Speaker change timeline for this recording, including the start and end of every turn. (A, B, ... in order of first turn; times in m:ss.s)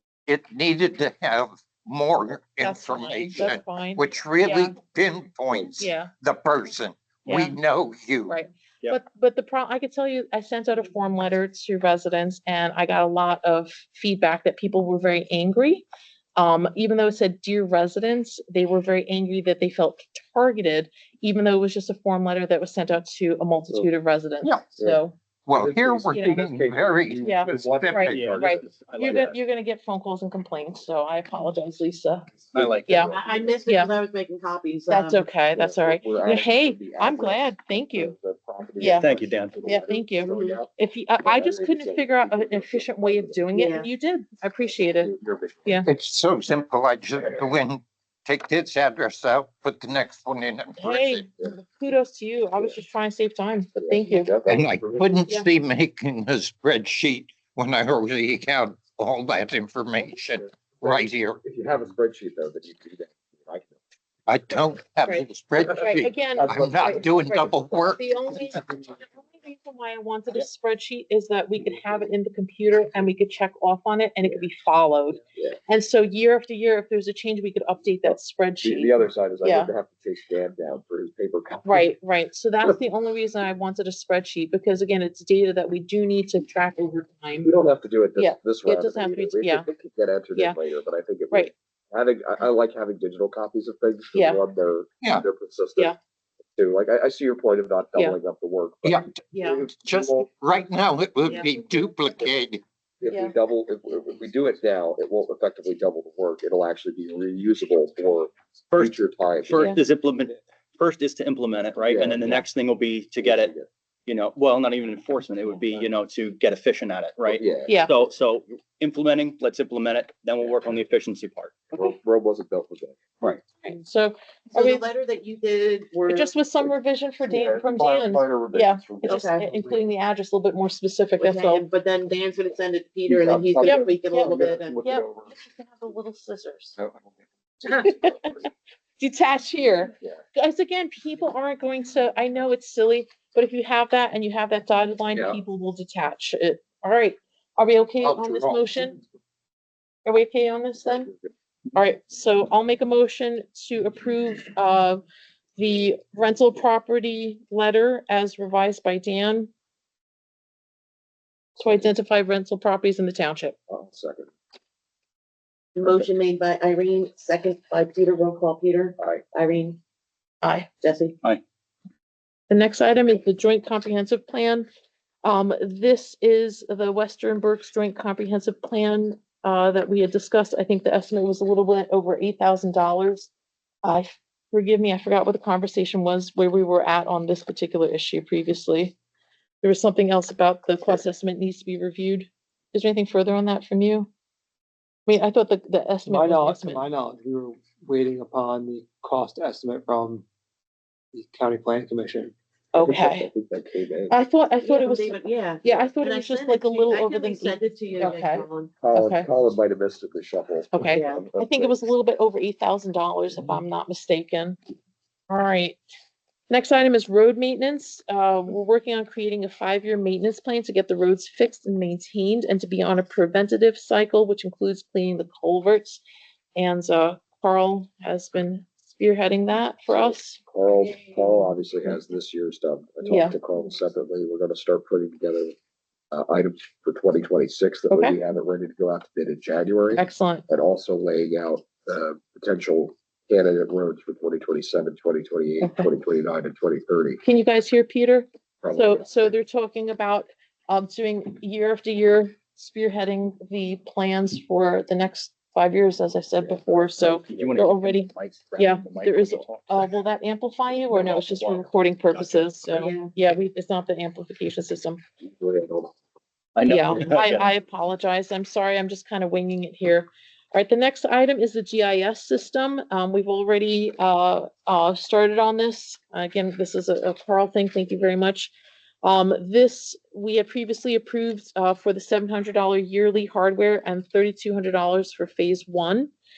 0:00.3-0:08.4 A
0:02.6-0:04.8 B
0:05.8-0:06.1 B
0:07.3-0:07.6 B
0:08.3-0:15.8 B
0:16.4-0:25.2 B
0:25.5-0:28.4 A
0:25.5-0:28.6 C
0:26.1-0:26.4 B
0:27.2-0:32.3 B
0:28.1-0:29.4 D
0:32.5-0:33.1 D
0:32.9-0:33.2 B
0:33.0-0:35.3 E
0:33.7-0:33.9 B
0:34.9-0:38.1 B
0:35.5-0:40.7 C
0:38.8-0:39.1 B
0:39.0-0:39.6 D
0:39.6-0:45.1 B
0:41.2-0:43.5 C
0:43.5-0:43.9 E
0:45.0-0:45.7 C
0:45.8-0:51.3 A
0:50.8-0:54.3 B
0:53.8-0:55.1 C
0:54.4-1:01.4 A
1:00.8-1:03.8 C
1:04.3-1:08.2 A
1:05.7-1:19.7 B
1:06.4-1:07.1 C
1:18.1-1:21.9 C
1:21.6-1:27.5 B
1:27.4-1:35.9 C
1:28.2-1:29.7 B
1:34.1-1:34.4 B
1:36.6-1:40.2 C
1:38.8-1:42.6 A
1:39.3-1:39.7 E
1:41.3-1:41.5 E
1:43.0-1:49.7 C
1:43.1-1:43.3 B
1:48.7-1:53.5 D
1:51.8-1:52.4 C
1:53.2-1:53.7 C
1:54.1-2:01.5 D
1:57.3-1:57.8 C
1:57.7-1:57.9 B
2:01.7-2:03.4 C
2:03.6-2:04.9 B
2:04.5-2:06.4 E
2:06.1-2:11.7 B
2:07.3-2:09.8 C
2:09.0-2:09.5 E
2:11.2-2:14.9 E
2:13.1-2:15.3 C
2:13.6-2:16.8 B
2:16.8-2:18.5 C
2:17.6-2:18.4 B
2:19.0-2:29.0 B
2:25.1-2:25.4 C
2:28.0-2:28.6 A
2:30.0-2:31.1 B
2:31.8-2:35.0 B
2:35.6-2:39.5 B
2:41.6-2:43.6 B
2:41.6-2:41.9 C
2:43.7-2:44.3 C
2:45.8-2:49.8 E
2:49.0-2:49.2 C
2:50.4-2:50.7 B
2:50.8-2:51.2 E
2:52.5-2:54.7 B
2:55.2-3:03.3 B
3:03.8-3:09.0 B
3:09.6-3:14.1 B
3:15.1-3:16.8 B
3:16.1-3:20.2 F
3:21.2-3:22.3 F
3:22.7-3:23.3 B
3:22.8-3:24.2 C
3:24.1-3:29.3 B
3:24.6-3:28.8 E
3:28.2-3:31.8 C
3:30.7-3:34.6 B
3:30.9-3:31.3 E
3:35.3-3:35.8 B
3:36.5-3:46.0 B
3:46.6-3:50.4 B
3:49.9-3:55.5 C
3:53.0-3:53.4 B
3:56.1-4:07.2 C
3:57.9-3:58.2 B
3:59.9-4:00.4 B
4:05.6-4:05.9 B
4:07.2-4:25.0 B
4:08.6-4:09.3 C
4:16.4-4:17.6 C
4:17.3-4:19.9 D
4:20.9-4:22.5 D
4:22.7-4:23.1 E
4:25.2-4:25.9 C
4:26.6-4:27.5 D
4:26.7-4:46.1 B